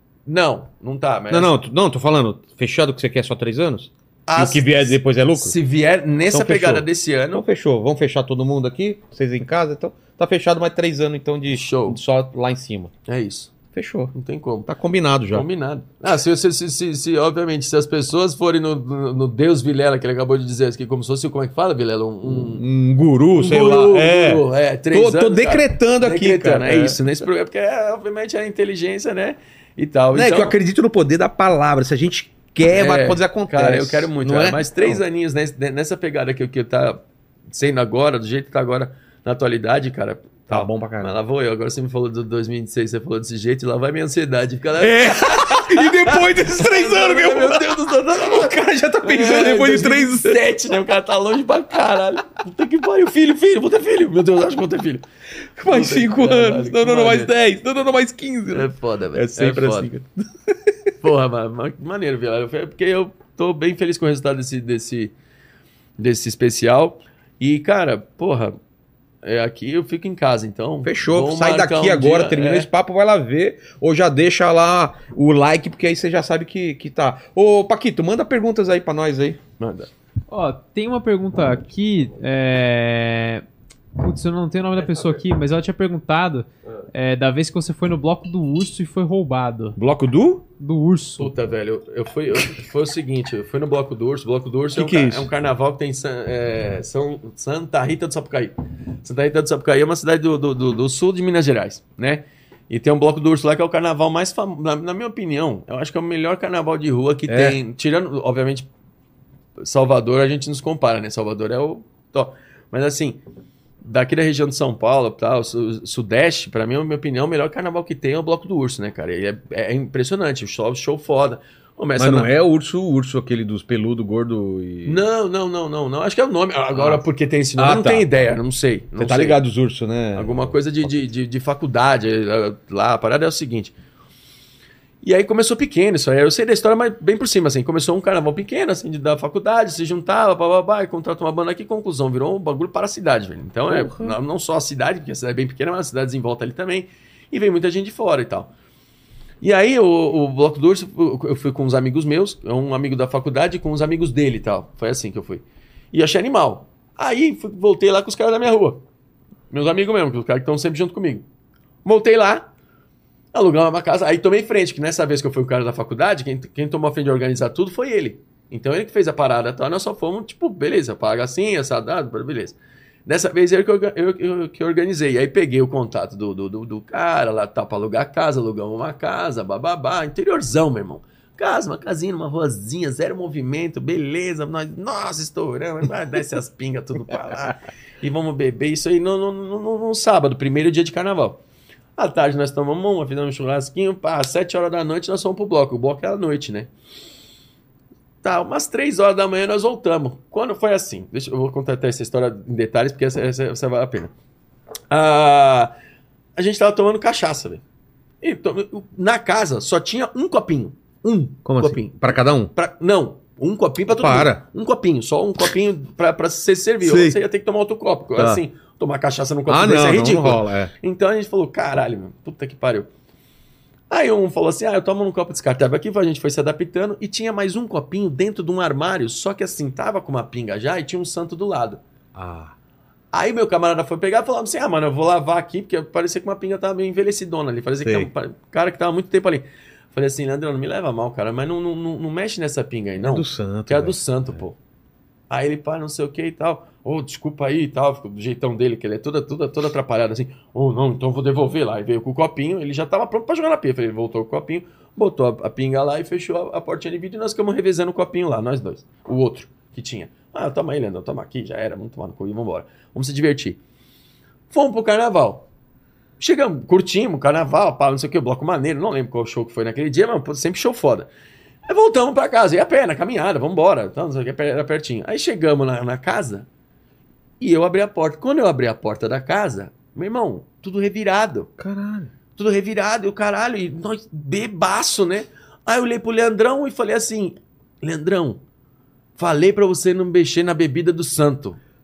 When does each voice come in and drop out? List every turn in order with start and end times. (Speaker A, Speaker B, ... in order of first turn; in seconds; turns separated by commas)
Speaker A: 0.3-1.5, Speaker B: 1.3-5.6, Speaker A: 4.3-7.4, Speaker B: 6.3-12.9, Speaker A: 11.5-12.0, Speaker A: 13.1-13.6, Speaker B: 13.7-14.1, Speaker A: 14.1-14.7, Speaker B: 14.7-15.5, Speaker A: 15.3-22.6, Speaker B: 22.2-27.0, Speaker A: 23.4-30.6, Speaker B: 30.1-35.0, Speaker A: 32.7-55.0, Speaker B: 40.5-41.1, Speaker B: 44.8-50.4, Speaker B: 55.6-60.1, Speaker A: 55.6-57.3, Speaker A: 58.5-59.9, Speaker A: 61.0-65.1, Speaker A: 66.0-68.6, Speaker A: 69.2-72.7, Speaker B: 70.8-79.4, Speaker A: 79.6-79.9, Speaker C: 80.3-83.4, Speaker C: 84.0-89.8, Speaker B: 89.8-90.5, Speaker C: 90.6-91.3, Speaker A: 91.2-108.7, Speaker B: 94.7-95.3, Speaker B: 107.3-107.6, Speaker A: 109.6-113.2, Speaker A: 113.8-122.3, Speaker B: 122.0-125.0, Speaker A: 124.8-129.4, Speaker B: 126.8-127.0, Speaker B: 127.6-128.3, Speaker B: 129.0-130.6, Speaker A: 130.2-133.7, Speaker A: 135.0-148.5, Speaker B: 143.7-144.2, Speaker A: 149.4-158.8, Speaker A: 159.5-161.2, Speaker A: 161.8-162.5, Speaker A: 163.3-191.4, Speaker A: 192.0-196.7, Speaker A: 198.2-204.1, Speaker A: 204.9-205.7, Speaker A: 206.4-207.6, Speaker A: 208.2-222.9, Speaker B: 211.4-212.5, Speaker B: 213.9-214.4, Speaker B: 216.8-217.2, Speaker B: 218.2-218.4, Speaker B: 219.5-220.7, Speaker A: 223.9-231.8, Speaker B: 232.2-232.5, Speaker A: 233.1-244.6, Speaker B: 237.8-238.1, Speaker B: 243.0-244.0, Speaker A: 245.3-263.6, Speaker A: 264.5-265.5, Speaker A: 266.2-271.1, Speaker A: 271.7-276.5, Speaker A: 277.4-281.5, Speaker B: 281.6-282.1, Speaker A: 282.4-288.4, Speaker A: 289.2-291.6